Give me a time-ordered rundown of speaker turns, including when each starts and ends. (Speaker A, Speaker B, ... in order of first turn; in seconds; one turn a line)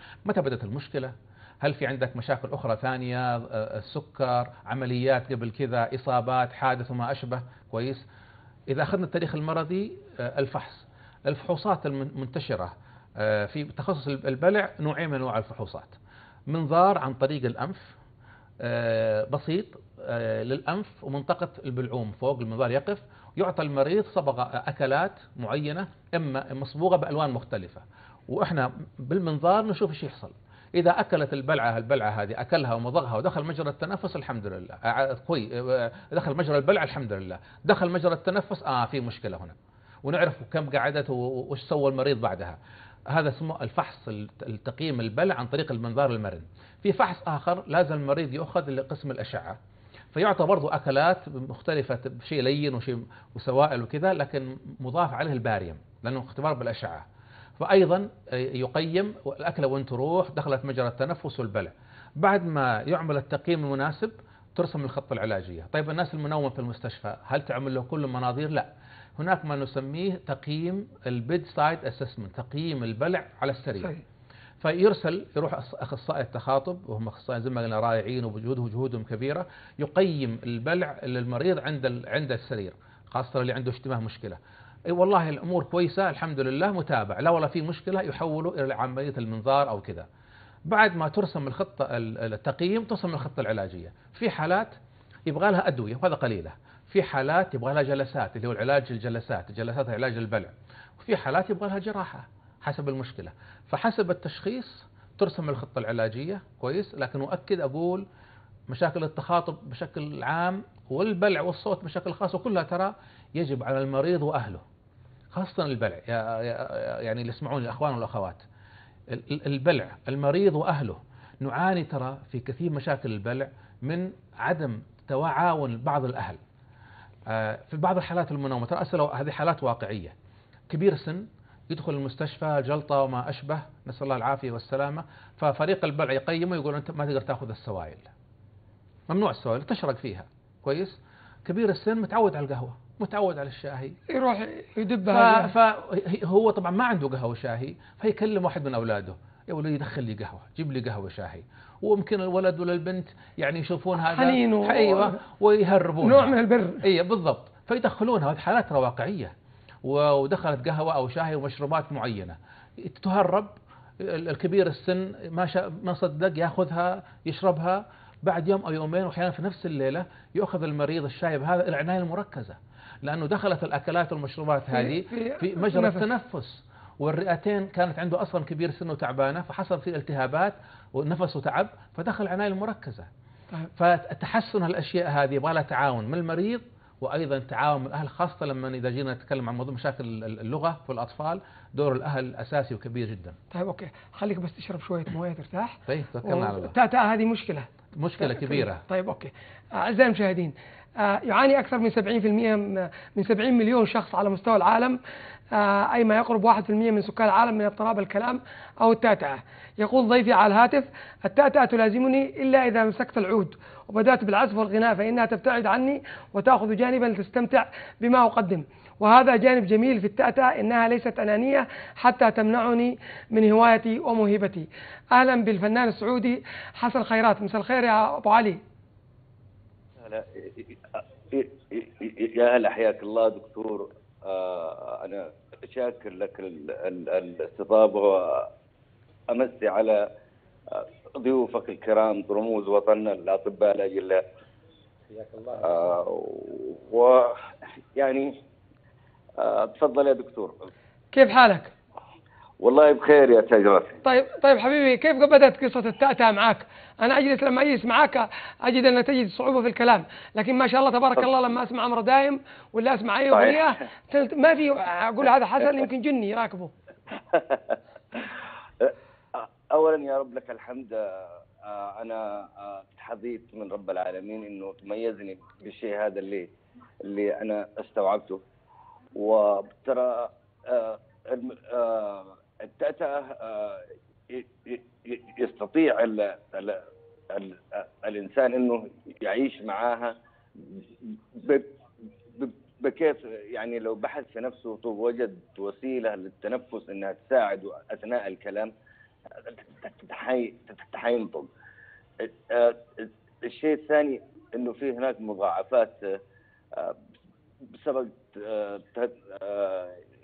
Speaker A: 0.2-8.0
Speaker A: 8.7-16.0
Speaker A: 16.5-17.9
Speaker A: 18.6-42.6
Speaker A: 43.1-49.6
Speaker A: 50.1-57.1
Speaker A: 57.6-73.9
Speaker A: 74.6-90.1
Speaker A: 90.7-94.7
Speaker A: 95.3-108.0
Speaker A: 108.7-114.6
Speaker A: 115.3-118.5
Speaker A: 119.1-126.4
Speaker A: 127.3-130.1
Speaker A: 130.7-138.1
Speaker A: 139.1-144.0
Speaker B: 144.1-145.5
Speaker A: 145.1-159.3
Speaker B: 154.0-155.2
Speaker B: 156.0-156.8
Speaker A: 159.8-183.1
Speaker B: 174.7-176.1
Speaker A: 183.8-193.4
Speaker B: 193.5-205.0
Speaker A: 195.9-196.8
Speaker A: 198.0-198.8
Speaker B: 205.5-228.6
Speaker C: 230.0-238.5
Speaker C: 239.3-240.1
Speaker C: 240.7-244.2
Speaker C: 245.4-248.4
Speaker C: 249.4-250.7
Speaker B: 251.1-251.7
Speaker C: 252.6-254.0
Speaker B: 254.1-266.7
Speaker C: 263.3-263.6
Speaker C: 267.3-276.5
Speaker C: 277.0-278.4
Speaker C: 279.1-291.7
Speaker C: 292.3-298.7
Speaker C: 299.4-301.5
Speaker C: 302.2-306.2
Speaker C: 306.7-307.0
Speaker C: 307.7-310.0